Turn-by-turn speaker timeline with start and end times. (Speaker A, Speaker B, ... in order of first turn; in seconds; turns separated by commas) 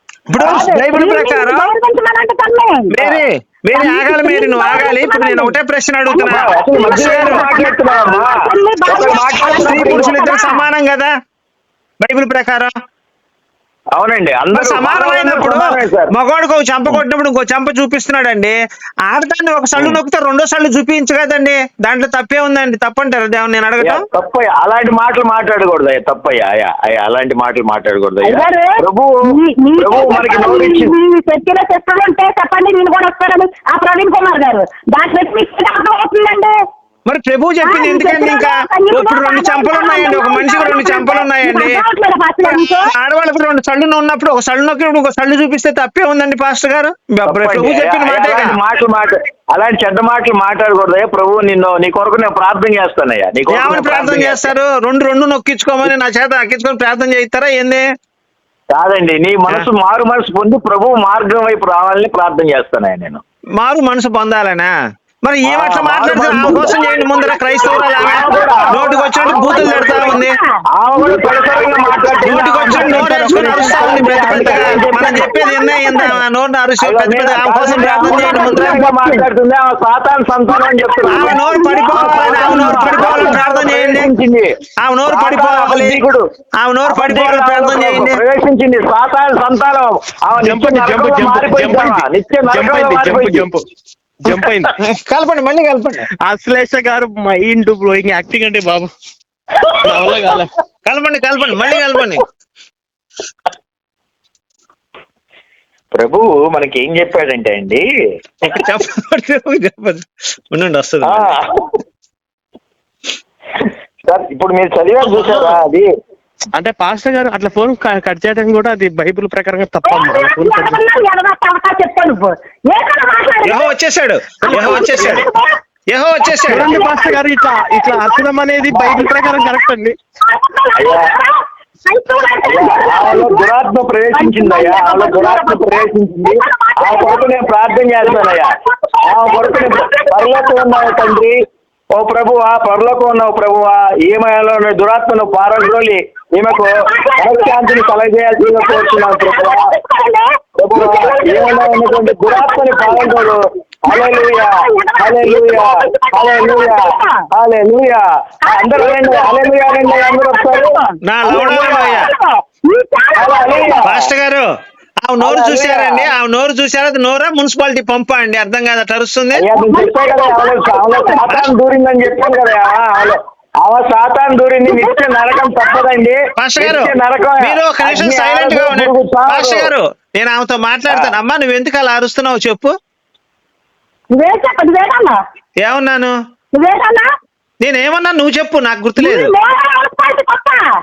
Speaker A: 0.3-1.7, Speaker B: 0.4-3.0, Speaker A: 2.9-7.5, Speaker B: 3.7-10.6, Speaker C: 6.2-10.2, Speaker A: 9.4-11.1, Speaker A: 12.0-12.7, Speaker C: 13.9-16.1, Speaker A: 14.5-18.6, Speaker A: 19.1-24.0, Speaker C: 23.8-29.1, Speaker B: 28.2-36.5, Speaker C: 29.8-30.9, Speaker A: 37.1-41.8, Speaker B: 37.6-42.9, Speaker A: 42.4-48.6, Speaker C: 47.3-54.5, Speaker A: 53.5-57.8, Speaker C: 58.7-63.2, Speaker A: 63.6-64.7, Speaker A: 65.2-70.3, Speaker C: 65.5-66.8, Speaker B: 66.1-72.3, Speaker C: 67.8-70.2, Speaker C: 70.8-75.6, Speaker A: 72.2-78.9, Speaker D: 72.3-74.1, Speaker B: 73.5-76.2, Speaker C: 76.8-84.5, Speaker B: 77.9-79.3, Speaker B: 80.5-83.4, Speaker A: 81.1-84.1, Speaker A: 84.8-86.0, Speaker C: 85.1-86.2, Speaker A: 86.6-88.2, Speaker C: 86.9-93.5, Speaker D: 90.3-93.6, Speaker D: 94.2-94.7, Speaker A: 94.8-96.1, Speaker D: 96.3-98.9, Speaker D: 99.8-100.5, Speaker A: 100.9-102.2, Speaker C: 105.9-107.8, Speaker A: 108.4-111.3, Speaker C: 111.1-111.7, Speaker C: 113.6-115.9, Speaker D: 116.6-120.8, Speaker B: 119.8-123.7, Speaker A: 123.5-125.3, Speaker B: 124.4-125.6, Speaker A: 125.9-126.8, Speaker B: 126.4-129.6, Speaker D: 126.4-129.9, Speaker B: 130.2-133.5, Speaker C: 130.8-131.1, Speaker C: 132.5-138.5, Speaker B: 134.1-137.3, Speaker B: 138.0-141.2, Speaker C: 139.1-141.4, Speaker C: 141.9-149.6, Speaker B: 146.5-157.3, Speaker C: 150.6-156.8, Speaker C: 157.3-160.7, Speaker B: 158.4-163.9, Speaker A: 161.1-162.1, Speaker C: 161.3-161.6, Speaker C: 163.2-164.0, Speaker A: 163.8-164.5, Speaker A: 165.0-169.4, Speaker C: 165.2-166.1, Speaker C: 169.3-179.7, Speaker B: 169.7-171.5, Speaker B: 172.1-173.2, Speaker B: 174.7-175.9, Speaker A: 176.4-182.7, Speaker B: 184.1-185.2, Speaker A: 185.6-186.1, Speaker B: 186.6-187.1, Speaker A: 187.6-189.3, Speaker B: 189.0-190.7